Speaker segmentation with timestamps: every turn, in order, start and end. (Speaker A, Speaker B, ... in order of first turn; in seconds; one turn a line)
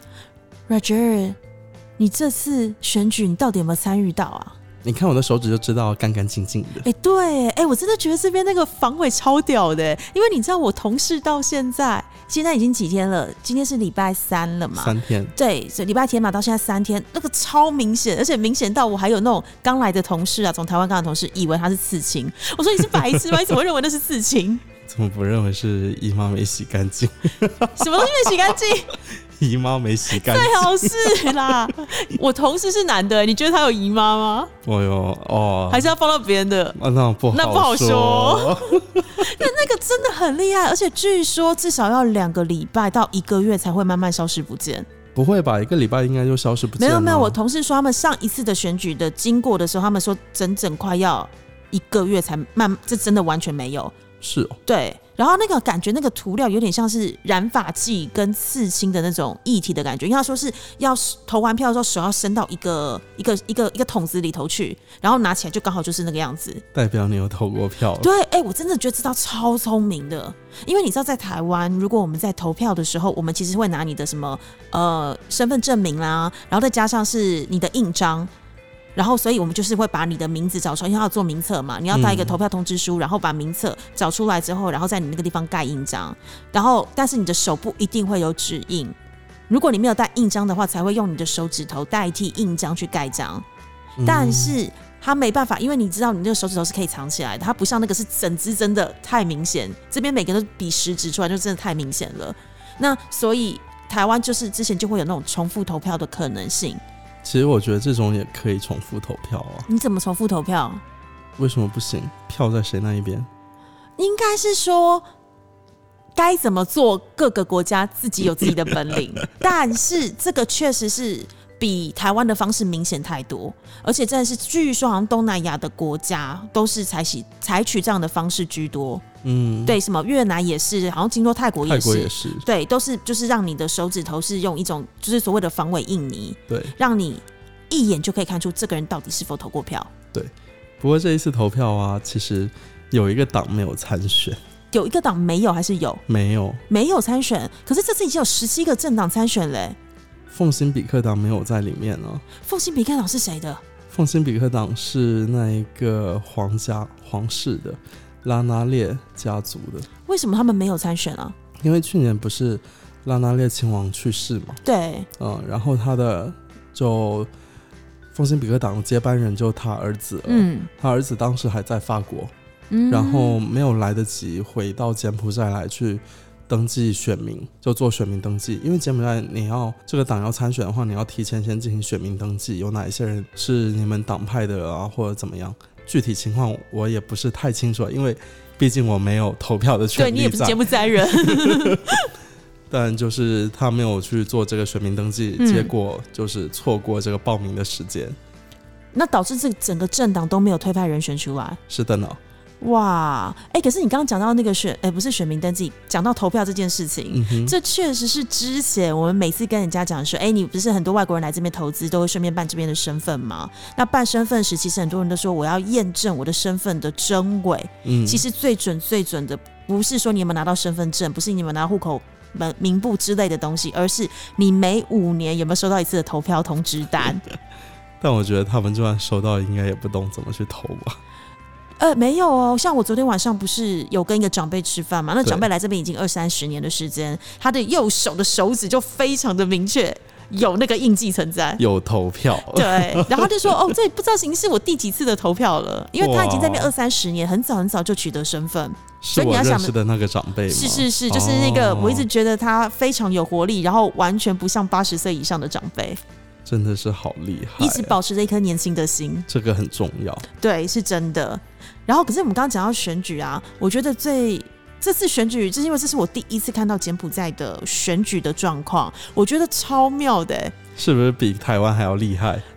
Speaker A: 0.7-1.4
Speaker A: 2.0-4.5
Speaker B: 4.8-6.8
Speaker A: 6.8-24.6
Speaker B: 14.7-15.3
Speaker B: 22.9-23.2
Speaker B: 24.9-28.5
Speaker A: 27.8-29.0
Speaker B: 29.4-31.7
Speaker A: 30.1-34.5
Speaker B: 34.6-35.9
Speaker A: 35.7-36.8
Speaker B: 36.7-39.5
Speaker A: 37.3-44.9
Speaker B: 45.1-47.4
Speaker A: 46.8-53.9
Speaker B: 54.2-54.6
Speaker A: 54.6-66.6
Speaker B: 66.7-68.1
Speaker A: 68.0-78.3
Speaker A: 79.0-88.9
Speaker B: 81.9-82.3
Speaker A: 89.5-93.4
Speaker B: 94.0-94.6
Speaker A: 94.0-106.8
Speaker B: 107.2-109.7
Speaker A: 109.7-110.8
Speaker B: 111.4-113.3
Speaker A: 114.0-115.0
Speaker A: 116.2-129.0
Speaker B: 118.4-119.0
Speaker B: 129.2-129.8
Speaker A: 129.7-139.9
Speaker B: 131.6-132.5
Speaker B: 136.5-136.7
Speaker B: 140.1-144.4
Speaker A: 144.7-146.0
Speaker B: 146.1-146.6
Speaker A: 146.7-149.8
Speaker B: 150.3-152.2
Speaker A: 152.4-153.6
Speaker B: 153.9-159.9
Speaker A: 160.1-161.3
Speaker B: 161.6-164.6
Speaker A: 164.6-165.1
Speaker B: 165.2-167.3
Speaker B: 168.1-172.3
Speaker A: 170.3-170.7
Speaker A: 172.7-173.4
Speaker B: 172.9-191.8
Speaker A: 189.9-192.1
Speaker B: 192.7-198.2
Speaker A: 195.4-195.7
Speaker A: 198.9-201.6
Speaker B: 201.7-202.2
Speaker A: 202.6-227.2
Speaker B: 207.1-207.5
Speaker B: 217.8-218.2
Speaker B: 228.0-231.0
Speaker A: 231.8-241.6
Speaker B: 241.6-243.7
Speaker A: 242.4-249.7
Speaker B: 246.0-246.7
Speaker B: 249.0-252.1
Speaker A: 250.5-256.0
Speaker B: 256.4-258.0
Speaker A: 257.6-259.3
Speaker B: 259.3-260.2
Speaker A: 260.4-270.5
Speaker B: 270.8-272.4